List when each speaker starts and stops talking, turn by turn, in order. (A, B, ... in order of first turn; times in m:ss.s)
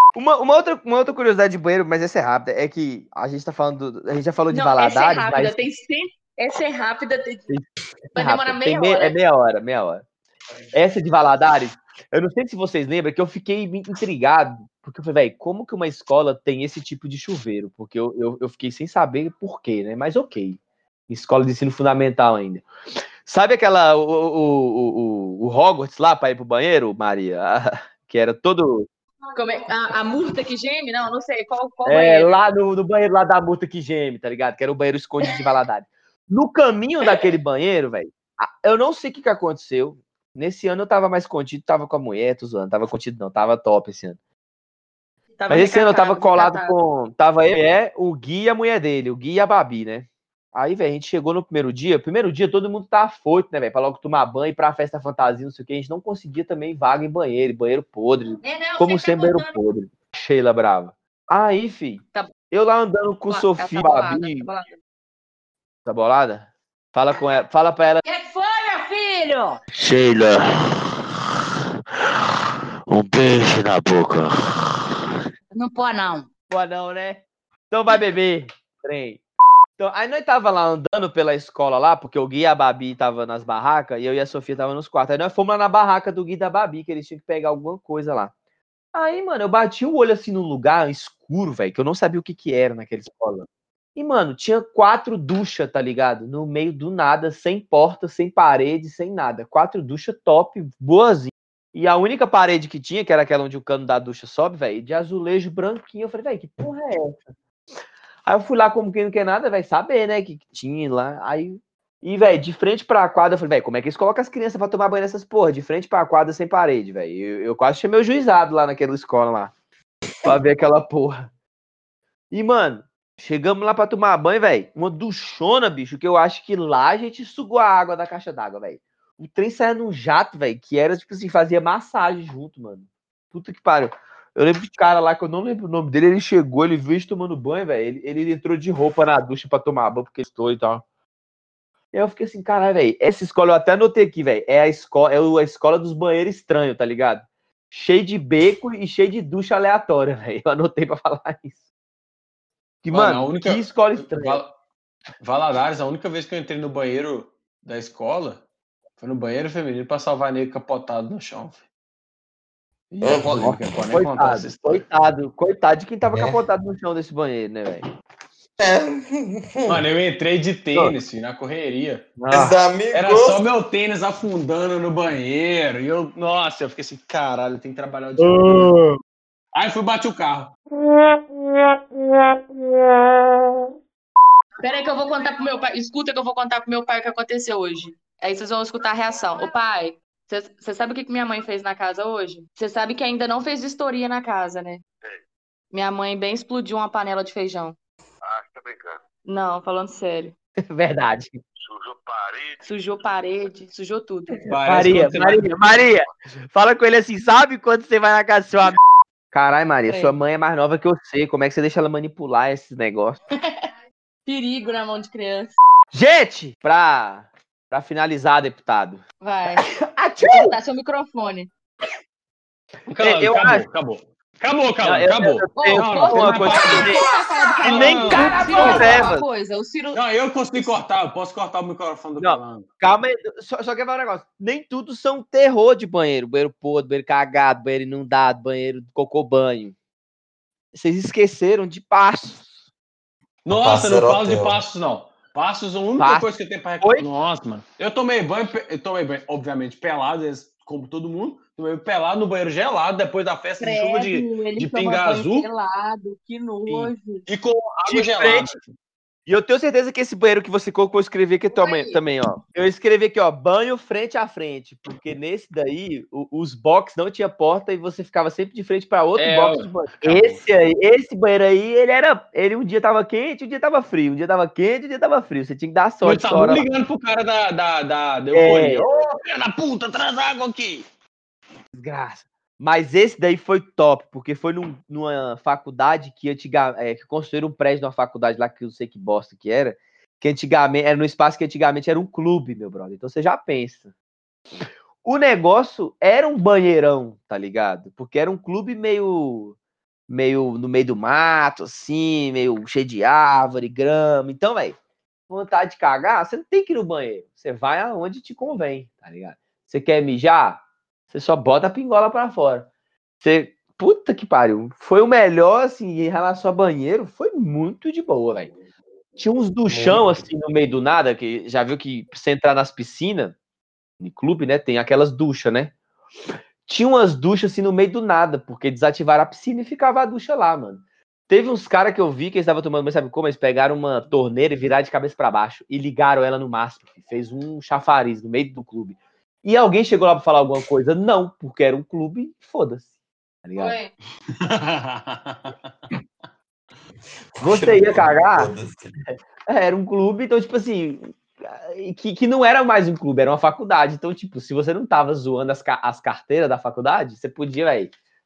0:00.1-0:05.5 A
0:04.5-0:07.5 B
0:07.5-0:10.0 A
0:08.1-0:09.1 B
0:10.7-0:22.6 A
0:23.2-0:28.9 A
0:29.3-0:32.3 B
0:31.8-0:44.2 A
0:45.4-0:46.7 B
0:45.5-1:04.5 A
0:58.4-0:59.6 C
1:03.3-1:04.7 B
1:05.8-1:08.0 A
1:08.0-1:09.6 C
1:09.7-1:10.8 D
1:12.9-1:14.8 D
1:15.5-1:16.3 C
1:16.5-1:19.2 A
1:19.8-1:28.3 A
1:28.9-1:47.1 A
1:48.2-1:59.5 A
2:00.2-2:01.2 A
2:02.3-2:20.8 A
2:21.9-2:31.6 A
2:32.8-2:34.4 A
2:32.9-2:34.5 E
2:35.2-2:38.4 E
2:39.0-2:41.6 E
2:42.9-2:44.8 E
2:43.0-2:43.6 F
2:43.4-2:47.8 A
2:46.0-2:46.4 F
2:48.6-2:49.8 F
2:49.7-2:52.1 E
2:52.2-2:52.5 A
2:52.3-2:53.4 F
2:52.9-2:58.7 E
2:58.2-2:59.0 A
2:59.5-3:00.5 E
3:04.6-3:14.8 B
3:15.7-3:17.8 B
3:19.2-3:20.3 B
3:20.7-3:21.4 A
3:22.6-3:24.4 B
3:24.5-3:25.5 E
3:24.6-3:28.8 A
3:29.3-3:33.2 A
3:29.9-3:30.1 B
3:34.2-3:35.5 B
3:35.9-3:39.0 A
3:39.2-3:39.6 B
3:39.6-3:40.5 A
3:40.2-3:41.5 B
3:42.9-3:47.1 E
3:43.0-3:43.6 A
3:44.8-3:47.0 A
3:45.6-3:50.0 B
3:47.6-3:49.1 E
3:47.6-3:49.2 A
3:49.9-3:52.6 E
3:52.2-3:59.7 A
4:00.7-4:02.5 A
4:03.4-4:15.5 E
4:03.5-4:04.6 F
4:06.0-4:06.3 A
4:13.6-4:17.2 B
4:16.7-4:16.9 A
4:17.3-4:18.7 E
4:17.9-4:18.6 A
4:19.3-4:36.6 A
4:21.5-4:22.0 B
4:29.2-4:30.4 E
4:36.0-4:40.8 E
4:38.3-4:38.8 A
4:41.7-4:53.9 A
4:55.0-4:59.5 A
5:00.1-5:04.8 A
5:05.3-5:12.7 A
5:13.2-5:18.5 A
5:19.2-5:23.3 A
5:19.7-5:20.2 F
5:24.0-5:25.7 A
5:26.7-5:42.8 A
5:43.4-5:43.8 A
5:43.6-5:43.9 B
5:44.4-5:45.7 E
5:47.4-5:48.9 F
5:47.4-5:48.5 A
5:49.5-5:57.9 A